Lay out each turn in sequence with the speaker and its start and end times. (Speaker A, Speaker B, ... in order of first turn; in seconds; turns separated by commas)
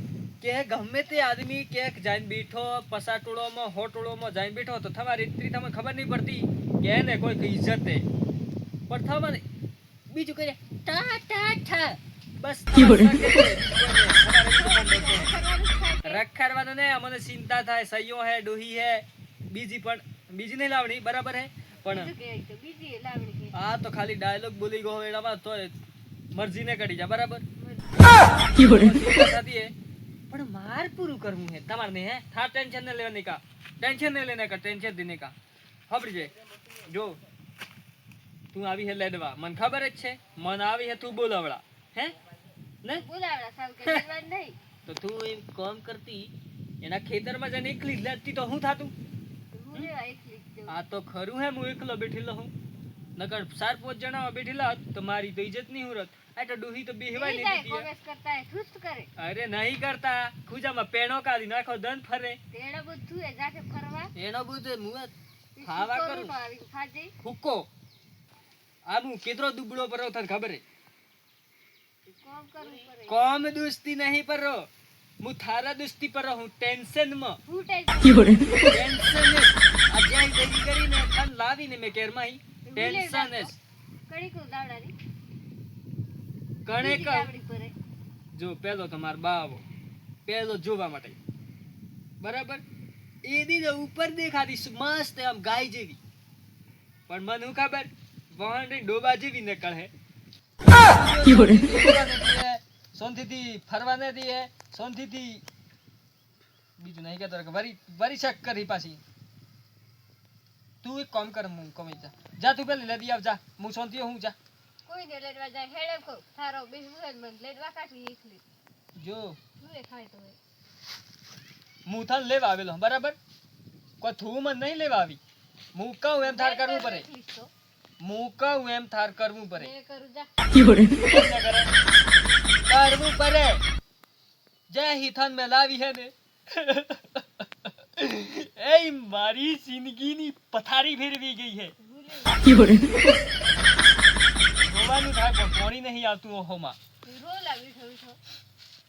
Speaker A: 0.4-8.0, Speaker A: 8.9-9.4, Speaker A: 10.1-15.3, Speaker B: 14.5-16.2, Speaker A: 16.0-22.1, Speaker B: 21.9-23.5, Speaker A: 23.5-25.8, Speaker A: 26.3-27.4, Speaker B: 27.6-28.0, Speaker A: 28.6-29.7, Speaker A: 30.3-35.3, Speaker A: 35.9-36.3, Speaker A: 36.8-37.2, Speaker A: 38.5-42.1, Speaker B: 42.9-44.6, Speaker A: 44.9-48.9, Speaker B: 49.5-50.7, Speaker A: 50.7-52.5, Speaker A: 53.2-57.9, Speaker B: 57.1-59.1, Speaker A: 59.2-62.4, Speaker B: 62.5-64.1, Speaker A: 64.1-66.3, Speaker B: 65.5-67.1, Speaker A: 67.2-67.7, Speaker A: 68.9-70.6, Speaker B: 72.0-73.2, Speaker A: 73.1-74.7, Speaker A: 75.2-77.4, Speaker B: 77.5-78.4, Speaker A: 78.7-83.6, Speaker B: 82.7-84.9, Speaker A: 86.6-87.3, Speaker B: 86.8-87.7, Speaker A: 88.3-89.6, Speaker A: 90.3-91.2, Speaker A: 92.2-92.6, Speaker A: 93.2-96.0, Speaker A: 97.1-99.9, Speaker A: 100.7-105.4, Speaker A: 106.8-109.0, Speaker A: 110.8-114.3, Speaker B: 114.8-118.4, Speaker A: 119.0-119.4, Speaker B: 119.6-120.4, Speaker A: 121.8-123.2, Speaker A: 124.0-125.2, Speaker A: 125.7-127.0, Speaker B: 126.2-127.5, Speaker A: 128.0-129.7, Speaker B: 129.5-130.8, Speaker A: 131.1-131.7, Speaker B: 132.3-132.7, Speaker A: 132.7-133.6, Speaker A: 134.7-141.7, Speaker B: 141.8-142.8, Speaker A: 144.6-146.8, Speaker B: 147.0-148.2